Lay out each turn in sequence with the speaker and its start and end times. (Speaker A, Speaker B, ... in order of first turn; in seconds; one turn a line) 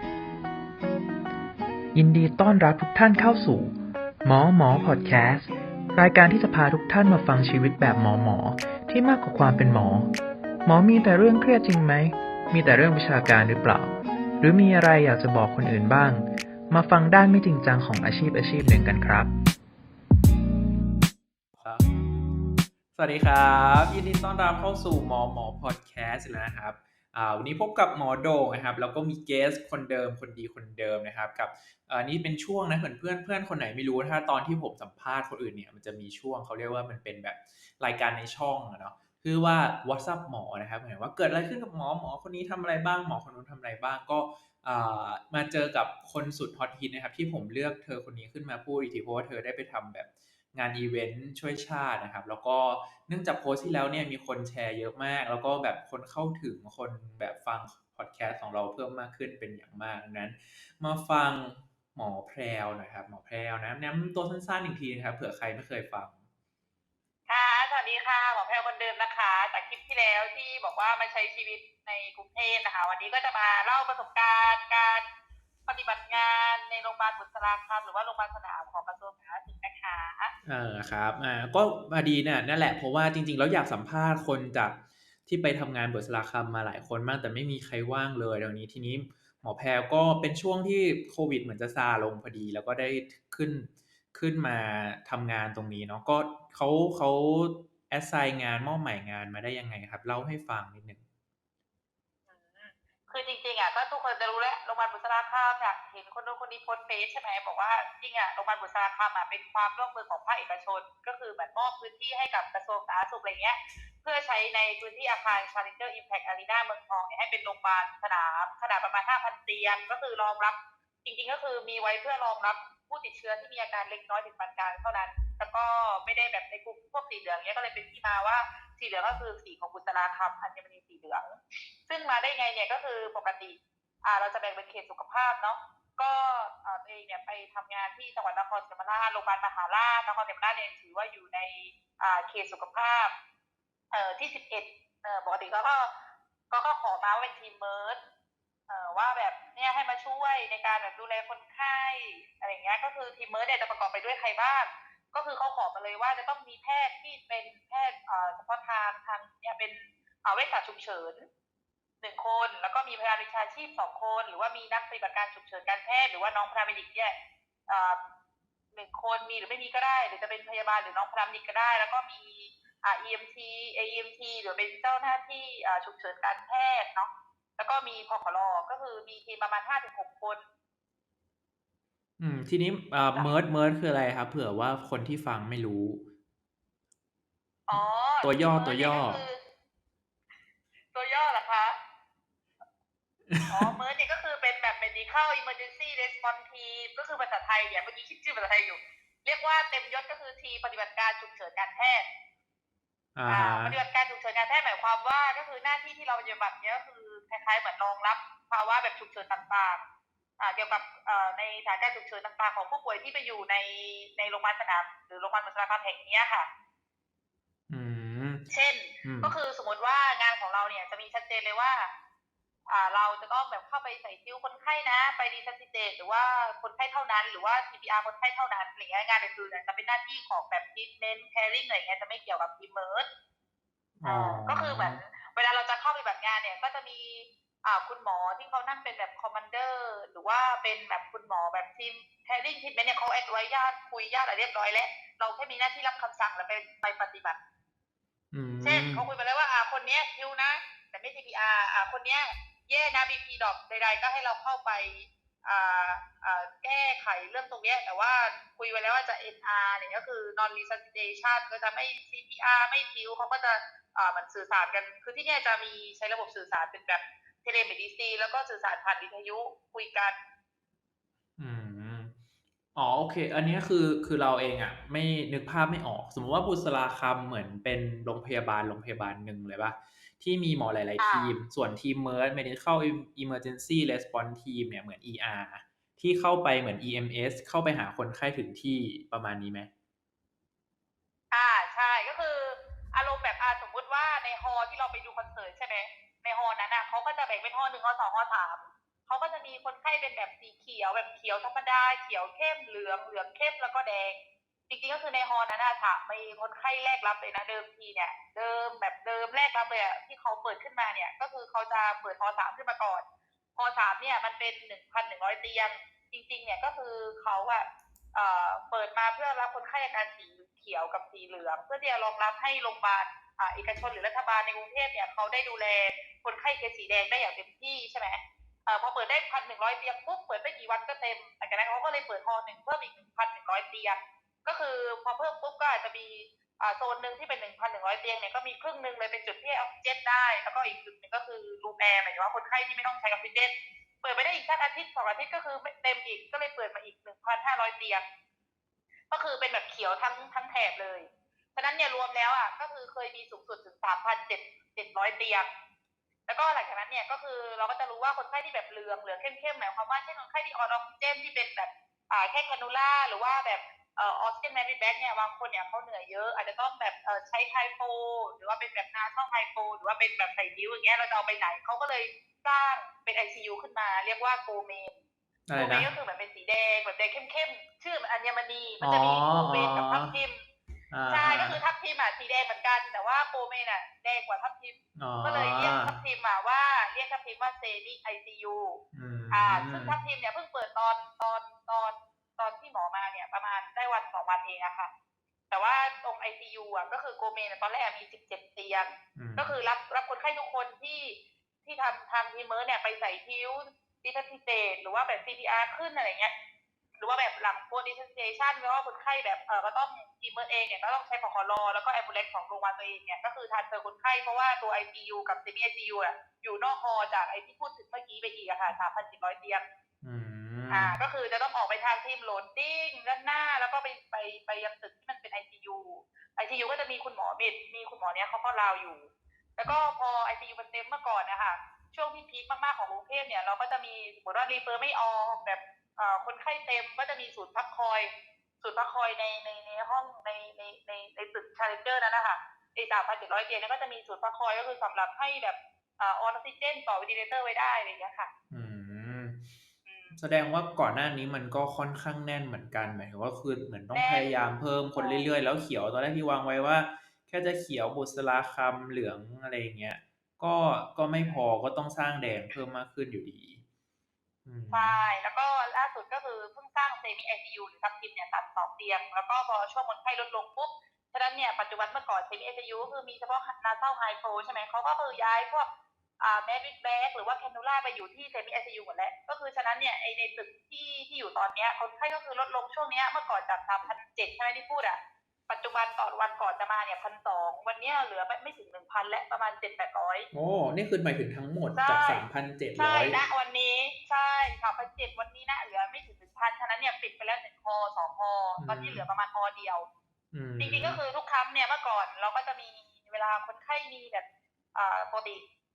Speaker A: 1.9-10.1
Speaker A: 10.7-19.3
Speaker B: 21.6-21.9
Speaker B: 22.9-66.2
Speaker C: 67.3-75.0
Speaker C: 75.7-80.3
Speaker B: 80.5-101.0
Speaker C: 102.3-143.1
Speaker C: 143.9-145.9
Speaker C: 146.5-148.0
Speaker C: 148.7-161.3
Speaker C: 162.0-167.2
Speaker C: 167.7-168.0
Speaker C: 168.7-180.4
Speaker B: 182.2-186.0
Speaker C: 187.7-189.4
Speaker B: 188.2-189.2
Speaker C: 190.9-191.8
Speaker B: 193.3-193.7
Speaker C: 193.5-202.1
Speaker B: 203.2-203.8
Speaker C: 203.3-209.8
Speaker C: 210.4-216.5
Speaker B: 217.7-218.5
Speaker C: 218.5-221.9
Speaker B: 219.0-219.3
Speaker C: 222.7-233.1
Speaker B: 234.0-235.0
Speaker C: 234.1-247.4
Speaker B: 248.3-249.1
Speaker C: 248.6-270.2
Speaker B: 271.4-272.1
Speaker B: 272.8-289.7
Speaker C: 281.0-281.4
Speaker C: 291.3-313.1
Speaker C: 313.6-348.0
Speaker C: 349.1-355.5
Speaker C: 356.3-375.0
Speaker B: 375.5-375.9
Speaker C: 375.5-380.5
Speaker B: 378.8-380.1
Speaker B: 380.9-381.6
Speaker C: 381.1-394.9
Speaker B: 385.0-386.0
Speaker B: 388.9-390.0
Speaker C: 395.5-406.3
Speaker B: 399.2-399.5
Speaker C: 407.0-419.6
Speaker B: 420.0-420.9
Speaker C: 420.7-438.1
Speaker C: 438.6-448.3
Speaker B: 448.5-449.4
Speaker C: 449.9-450.2
Speaker B: 450.1-463.6
Speaker C: 453.9-454.4
Speaker C: 455.0-455.3
Speaker B: 464.4-464.9
Speaker C: 464.7-475.7
Speaker C: 476.2-490.3
Speaker B: 490.3-493.2
Speaker C: 491.8-492.2
Speaker C: 492.8-499.9
Speaker B: 498.6-499.1
Speaker B: 500.3-501.0
Speaker C: 500.6-505.4